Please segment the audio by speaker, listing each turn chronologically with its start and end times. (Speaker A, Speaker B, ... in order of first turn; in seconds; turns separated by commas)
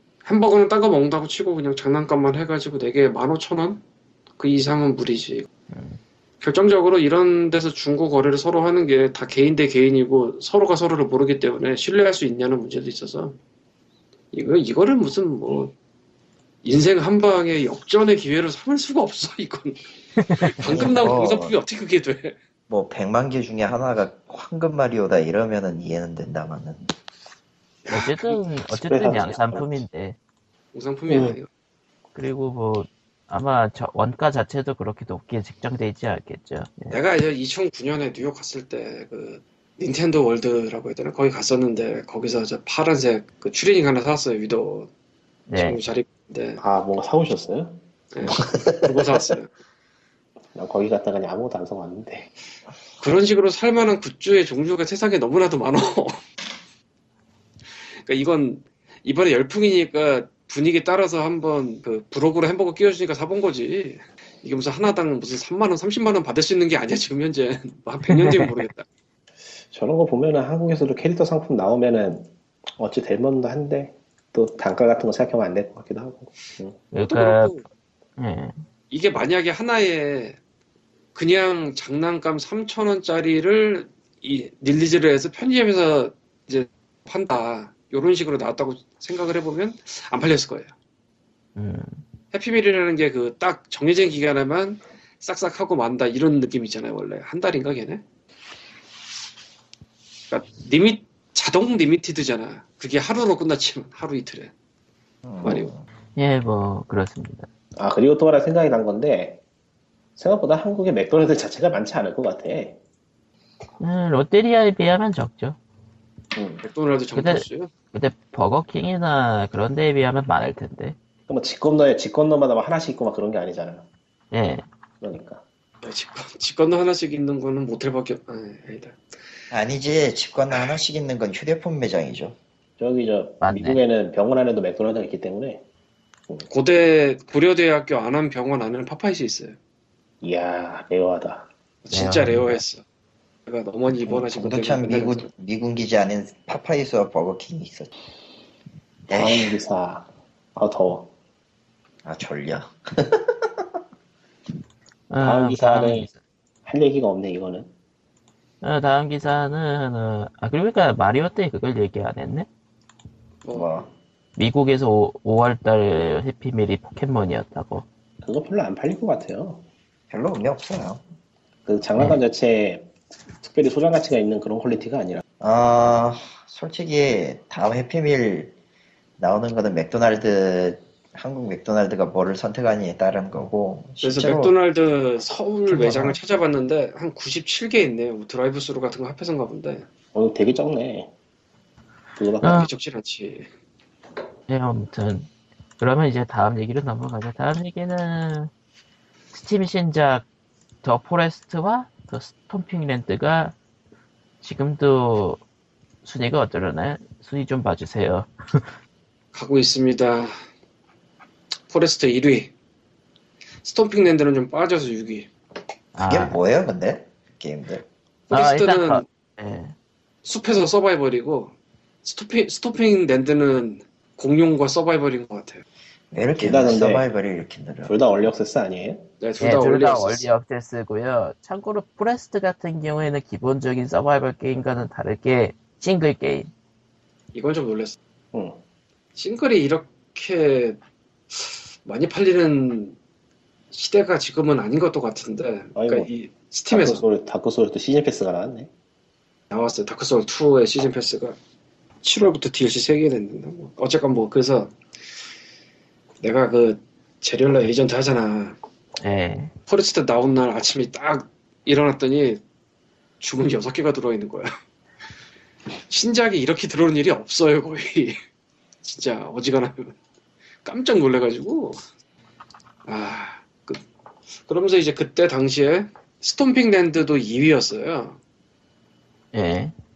Speaker A: 0.2-3.8, Speaker A: 4.4-5.5, Speaker B: 5.7-6.0, Speaker A: 6.4-13.4, Speaker A: 14.3-15.7, Speaker A: 16.6-19.8, Speaker B: 20.2-20.5, Speaker A: 20.4-22.4, Speaker C: 20.6-21.6, Speaker C: 22.7-26.9, Speaker A: 27.9-28.4, Speaker B: 27.9-30.2, Speaker D: 28.7-29.7, Speaker A: 30.7-31.5, Speaker D: 31.1-31.4, Speaker B: 32.1-37.0, Speaker A: 36.9-44.9, Speaker B: 45.5-45.8, Speaker A: 45.5-46.6, Speaker D: 46.6-47.8, Speaker A: 48.1-49.5, Speaker C: 48.5-48.8, Speaker D: 50.5-52.3, Speaker A: 53.0-56.2, Speaker A: 58.0-68.8, Speaker B: 68.1-68.5, Speaker D: 69.7-76.8, Speaker B: 76.9-77.5, Speaker A: 77.0-77.6, Speaker B: 78.2-78.5, Speaker A: 78.9-80.4, Speaker A: 81.1-90.7, Speaker B: 91.5-92.0, Speaker A: 92.3-98.0, Speaker A: 100.3-104.5, Speaker C: 105.2-105.8, Speaker A: 105.4-105.7, Speaker B: 106.2-107.5, Speaker D: 107.8-109.4, Speaker D: 110.2-112.8, Speaker B: 113.8-115.6, Speaker A: 116.6-117.7, Speaker B: 117.1-121.0, Speaker D: 121.3-123.8, Speaker B: 124.3-124.6, Speaker D: 125.0-125.4, Speaker A: 125.8-129.0, Speaker C: 129.5-132.4, Speaker D: 132.8-135.6, Speaker B: 133.4-133.8, Speaker A: 136.4-139.6, Speaker D: 140.2-141.5, Speaker A: 141.8-142.8, Speaker B: 141.9-142.6, Speaker A: 143.4-145.3, Speaker C: 143.9-147.9, Speaker C: 149.1-149.6, Speaker D: 149.1-151.1, Speaker C: 152.0-153.6, Speaker B: 155.1-156.2, Speaker D: 155.2-156.1, Speaker D: 156.6-157.7, Speaker B: 158.6-162.5, Speaker A: 163.4-163.8, Speaker C: 163.5-163.9, Speaker B: 164.4-167.8, Speaker D: 168.2-169.6, Speaker C: 170.1-171.0, Speaker D: 171.7-172.9, Speaker D: 173.4-175.2, Speaker C: 175.4-178.5, Speaker C: 179.2-184.5, Speaker A: 184.0-189.8, Speaker B: 185.7-186.2, Speaker D: 190.1-191.1, Speaker D: 192.2-192.7, Speaker B: 192.4-192.7, Speaker A: 192.5-193.5, Speaker B: 194.5-198.5, Speaker B: 199.3-200.2, Speaker B: 200.8-203.5, Speaker B: 204.4-205.4, Speaker B: 206.0-208.6, Speaker A: 209.3-210.3, Speaker A: 211.7-212.5, Speaker A: 213.6-215.3, Speaker B: 215.9-216.4, Speaker C: 216.0-217.8, Speaker A: 218.3-219.0, Speaker B: 218.3-219.7, Speaker A: 220.2-221.5, Speaker A: 222.0-225.6, Speaker C: 226.1-228.0, Speaker D: 226.4-227.1, Speaker D: 227.8-229.1, Speaker A: 229.2-230.2, Speaker B: 229.4-236.5, Speaker A: 237.3-238.0, Speaker D: 238.3-238.6, Speaker A: 239.1-240.8, Speaker A: 241.3-242.9, Speaker A: 243.7-247.0, Speaker D: 245.8-246.1, Speaker D: 246.7-248.7, Speaker A: 249.5-251.4, Speaker A: 252.0-254.7, Speaker A: 256.2-258.6, Speaker B: 259.0-259.5, Speaker A: 259.7-262.4, Speaker A: 263.2-264.5, Speaker A: 265.9-268.2, Speaker A: 268.8-269.9, Speaker A: 270.6-271.8, Speaker A: 272.9-273.8, Speaker A: 274.4-278.2, Speaker B: 279.3-279.7